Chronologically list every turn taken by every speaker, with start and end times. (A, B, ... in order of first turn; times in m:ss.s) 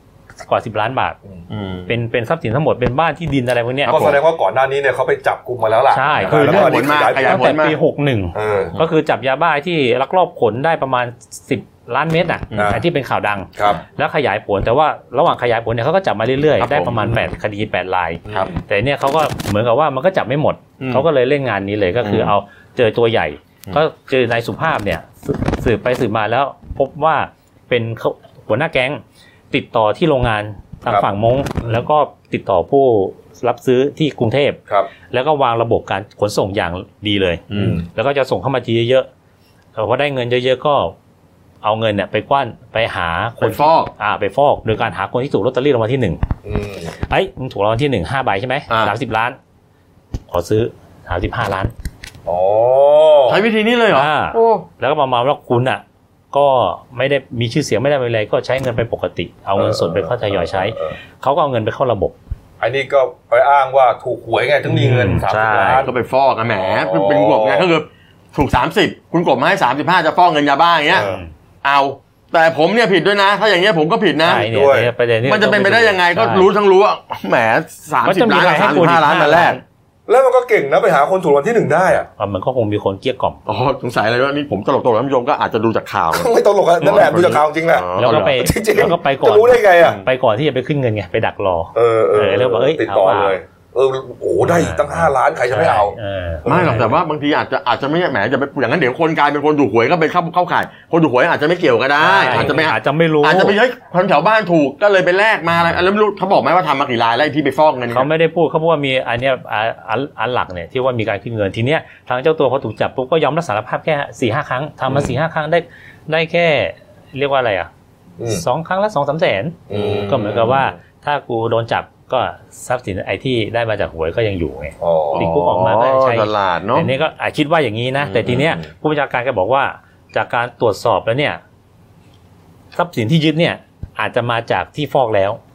0:00.4-0:01.2 A
0:01.5-0:01.9 B
0:01.9-0:04.2 A
0:03.8-0:04.2 B
0:03.9-0:07.5 C
0:05.9-0:39.1 A
0:06.2-0:07.8 B
0:08.3-0:08.7 C
0:12.6-0:12.8 C
0:13.6-0:13.8 C
0:16.6-0:17.3 B
0:18.3-0:18.6 C
0:20.8-0:21.1 B
0:22.0-0:22.3 B
0:37.5-0:37.8 B
0:37.5-0:37.9 C
0:39.8-0:41.0 A
0:41.6-0:46.2 A
0:43.4-0:43.9 B
0:46.4-0:47.0 C
0:47.1-0:49.4 A
0:48.7-0:49.0 B
0:50.3-0:51.7 A
0:52.3-0:53.4 C
0:53.3-0:54.7 B
0:53.9-1:02.2 A
0:59.6-1:01.0 C
1:02.6-1:05.9 C
1:04.7-1:05.9 A
1:05.6-1:11.1 B
1:06.6-1:07.7 C
1:10.9-1:11.2 C
1:11.0-1:11.3 A
1:11.6-1:14.5 B
1:14.2-1:16.5 A
1:14.4-1:14.9 C
1:15.2-1:19.6 B
1:18.0-1:19.6 A
1:20.1-1:22.1 C
1:22.2-1:23.4 A
1:23.5-1:28.4 B
1:26.1-1:30.0 C
1:28.0-1:33.4 A
1:31.8-1:36.9 C
1:34.4-1:36.9 A
1:36.5-1:48.1 B
1:42.0-1:43.6 A
1:47.9-1:57.7 A
1:58.2-1:58.4 C
1:58.3-2:11.4 A
1:59.7-2:00.6 C
1:59.7-2:00.7 B
2:04.8-2:05.2 C
2:05.1-2:06.9 B
2:08.0-2:08.7 B
2:12.7-2:15.4 A